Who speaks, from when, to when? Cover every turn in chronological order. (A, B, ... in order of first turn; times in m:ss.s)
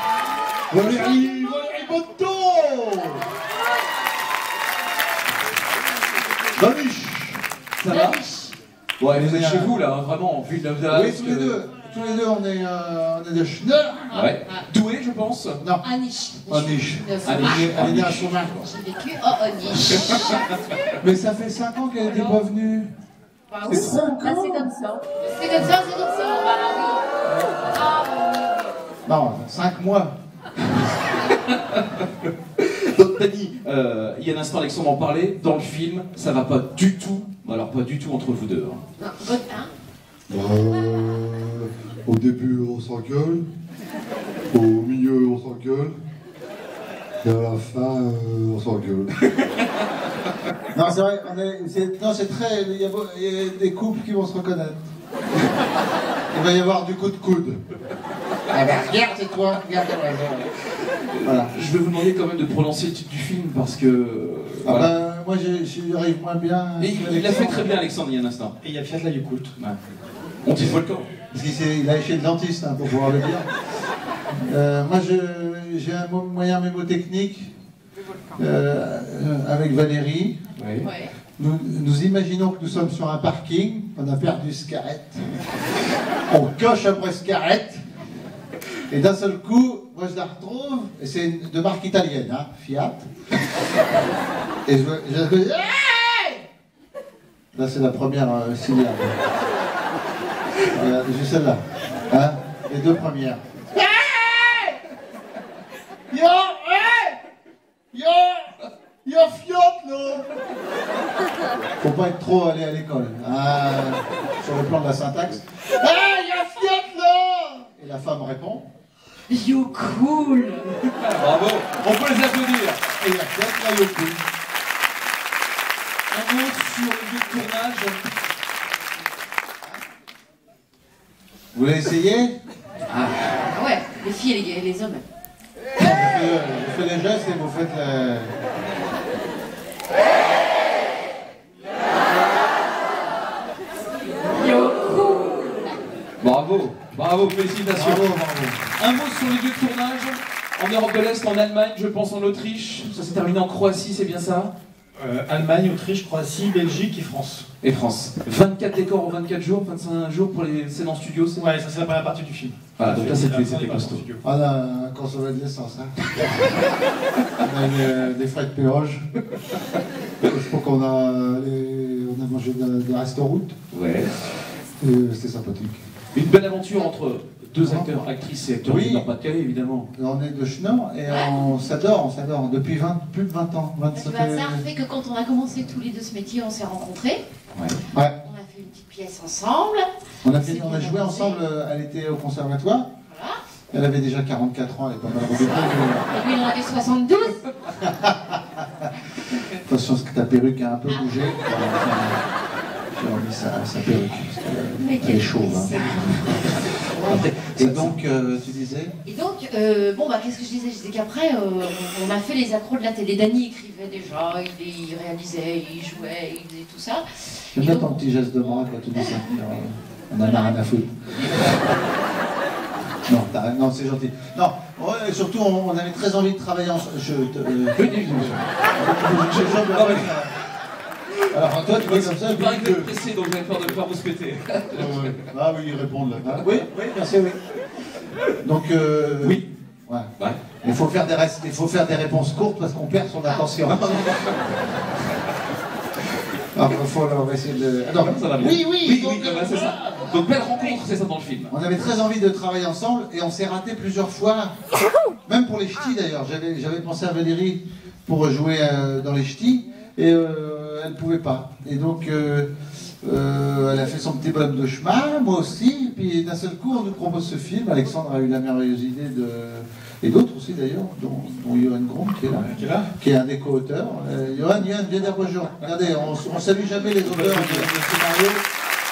0:00.7-0:03.2 A
0:06.5-0:07.4 A
0:07.8-0:08.2 B
0:07.9-0:08.5 C
0:09.0-0:11.6 B
0:09.1-0:09.7 A
0:10.9-0:14.3 A
0:14.1-0:15.6 B
0:15.6-0:15.8 A
0:15.8-0:17.8 C
0:16.5-0:18.6 A
0:17.2-0:18.7 B
0:18.6-0:20.5 C
0:19.9-0:20.2 B
0:21.0-0:22.9 A
0:22.0-0:22.4 B
0:23.5-0:27.1 C
0:23.6-0:24.7 A
0:27.3-0:27.6 A
0:27.6-0:28.6 C
0:29.0-0:30.1 A
0:31.4-0:32.0 B
0:32.6-0:38.8 B
0:39.0-0:39.7 C
0:40.3-0:43.4 D
0:44.5-0:45.9 D
0:47.2-0:49.2 D
0:50.7-0:54.8 A
0:56.3-0:57.6 A
0:58.5-1:00.5 A
1:01.1-1:04.9 B
1:01.2-1:01.5 A
1:04.6-1:07.7 A
1:06.8-1:08.5 B
1:08.6-1:09.5 E
1:10.4-1:11.1 B
1:11.3-1:13.5 A
1:14.3-1:17.5 A
1:18.4-1:20.4 A
1:20.6-1:20.9 B
1:20.8-1:21.1 C
1:21.4-1:27.8 A
1:28.9-1:33.5 A
1:34.6-1:36.4 A
1:37.5-1:39.2 A
1:40.7-1:44.8 A
1:46.1-1:47.2 A
1:47.9-1:50.3 A
1:51.8-1:58.7 A
1:59.3-2:00.7 C
2:00.8-2:02.8 B
2:03.0-2:04.2 A
2:06.1-2:08.1 B
2:11.5-2:12.3 A
2:12.9-2:13.1 B
2:13.4-2:15.0 C
2:15.8-2:18.3 A
2:24.3-2:25.5 C
2:26.2-2:28.2 B
2:27.7-2:28.6 A
2:28.8-2:34.5 B
2:35.0-2:37.5 E
2:37.6-2:41.4 B
2:41.4-2:44.2 E
2:42.8-2:44.0 B
2:44.2-2:46.4 A
2:47.4-2:49.1 A
2:50.2-2:53.6 A
2:53.7-2:54.1 B
2:54.8-2:55.8 A
2:56.1-2:59.9 B
2:57.6-2:58.0 A
2:58.6-2:59.1 A
2:59.9-3:04.6 A
3:01.0-3:01.5 C
3:03.9-3:07.2 C
3:08.2-3:11.4 C
3:10.2-3:12.9 A
3:13.1-3:13.4 C
3:13.7-3:16.1 A
3:15.4-3:17.4 C
3:17.8-3:18.9 A
3:19.5-3:22.2 A
3:20.9-3:21.2 C
3:22.9-3:26.0 A
3:24.8-3:27.2 C
3:26.5-3:28.9 A
3:27.1-3:27.9 B
3:29.0-3:38.0 C
3:37.5-3:41.6 A
3:40.2-3:40.6 C
3:43.0-3:50.3 A
3:47.7-3:50.1 B
3:51.3-3:52.9 A
3:51.5-3:55.2 B
3:54.7-3:57.4 A
3:55.3-3:55.7 D
3:58.4-4:00.1 A
4:00.6-4:04.1 A
4:03.8-4:04.4 B
4:06.5-4:10.2 A
4:08.0-4:11.5 B
4:11.5-4:14.5 A
4:15.2-4:22.5 A
4:23.0-4:37.7 A
4:32.3-4:32.9 E
4:36.9-4:38.4 E